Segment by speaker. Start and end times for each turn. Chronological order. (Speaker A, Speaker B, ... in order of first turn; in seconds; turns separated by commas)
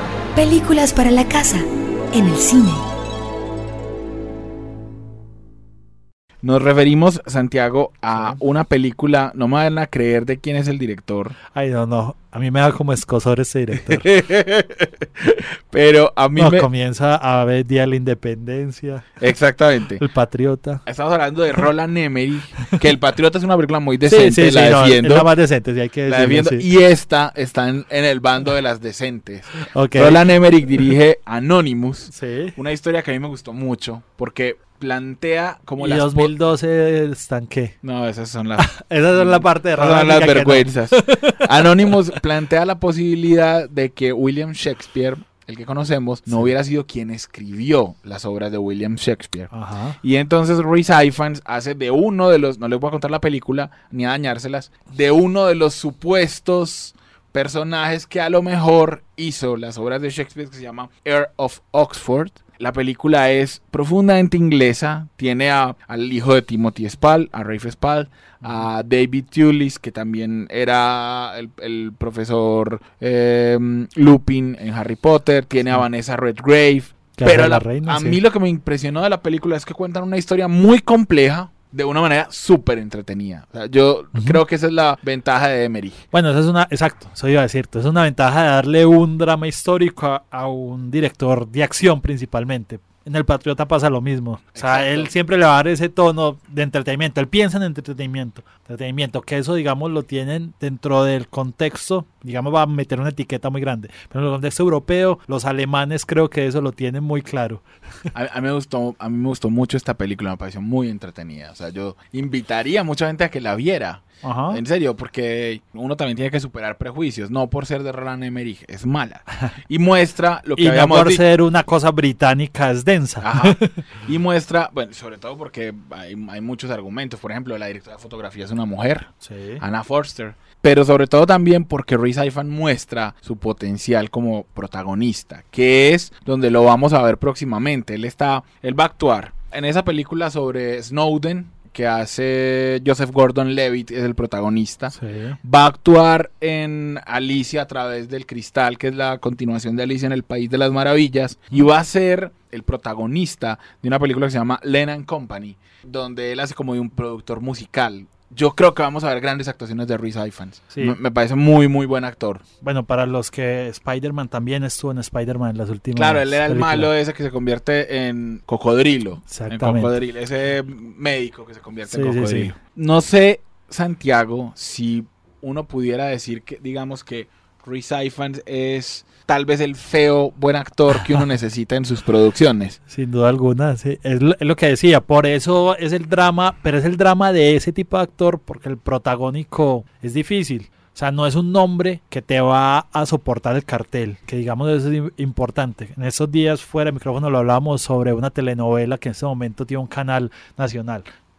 Speaker A: 0.3-2.8, Speaker B: 6.4-11.4, Speaker C: 11.5-14.1, Speaker B: 13.8-16.7, Speaker C: 16.4-19.1, Speaker B: 19.2-20.0, Speaker C: 20.0-20.8, Speaker B: 20.9-25.3, Speaker C: 24.1-26.6, Speaker B: 26.1-36.3, Speaker C: 29.7-30.2, Speaker C: 32.1-32.5, Speaker C: 35.8-37.8, Speaker B: 37.8-49.5, Speaker C: 38.6-41.5, Speaker C: 49.5-50.0, Speaker B: 50.0-86.0, Speaker C: 77.2-78.2, Speaker C: 84.1-84.4, Speaker C: 86.1-107.6, Speaker B: 94.5-95.1, Speaker B: 108.1-121.2, Speaker C: 114.2-114.6, Speaker C: 120.6-123.8, Speaker B: 123.2-162.4, Speaker C: 129.2-129.6, Speaker C: 144.9-145.4, Speaker C: 160.7-161.0, Speaker C: 162.6-166.9, Speaker B: 165.9-182.8, Speaker C: 169.3-169.9, Speaker C: 171.9-172.5, Speaker C: 182.9-201.1